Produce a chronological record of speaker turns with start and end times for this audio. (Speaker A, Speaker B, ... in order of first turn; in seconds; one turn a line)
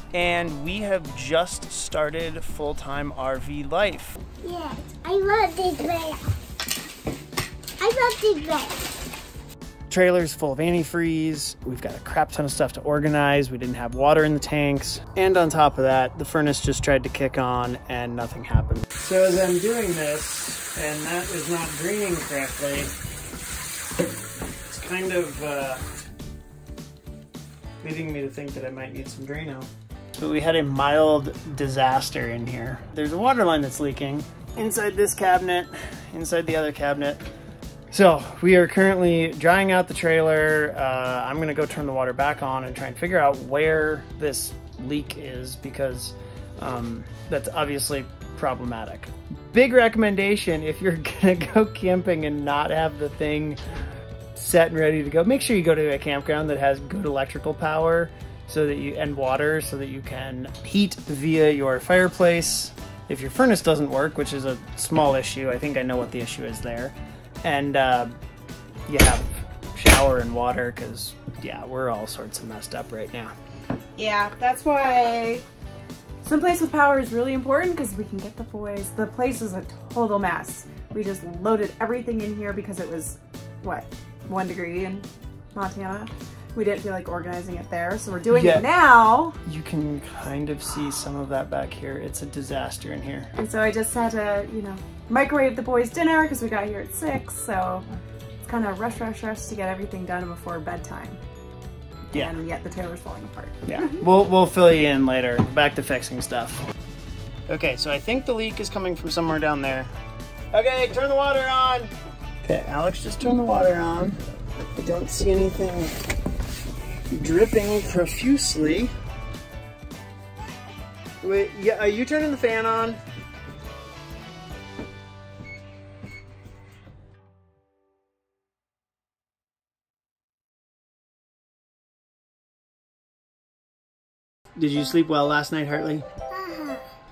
Speaker A: 0.1-4.2
Speaker B: 4.4-6.3
Speaker B: 7.8-8.9
Speaker A: 9.9-22.9
Speaker A: 24.7-25.8
Speaker A: 27.8-37.2
Speaker A: 37.9-53.6
Speaker A: 54.3-68.2
Speaker A: 68.9-73.3
Speaker C: 74.0-75.4
Speaker C: 76.2-89.4
Speaker A: 88.3-88.7
Speaker A: 89.4-93.3
Speaker C: 93.3-97.9
Speaker C: 98.4-101.2
Speaker C: 102.1-104.0
Speaker A: 103.7-106.6
Speaker A: 107.5-109.9
Speaker A: 110.5-111.9
Speaker A: 112.4-114.2
Speaker A: 114.7-116.0
Speaker A: 117.1-118.9
Speaker A: 121.2-123.0
Speaker A: 134.6-136.0
Speaker B: 136.3-136.8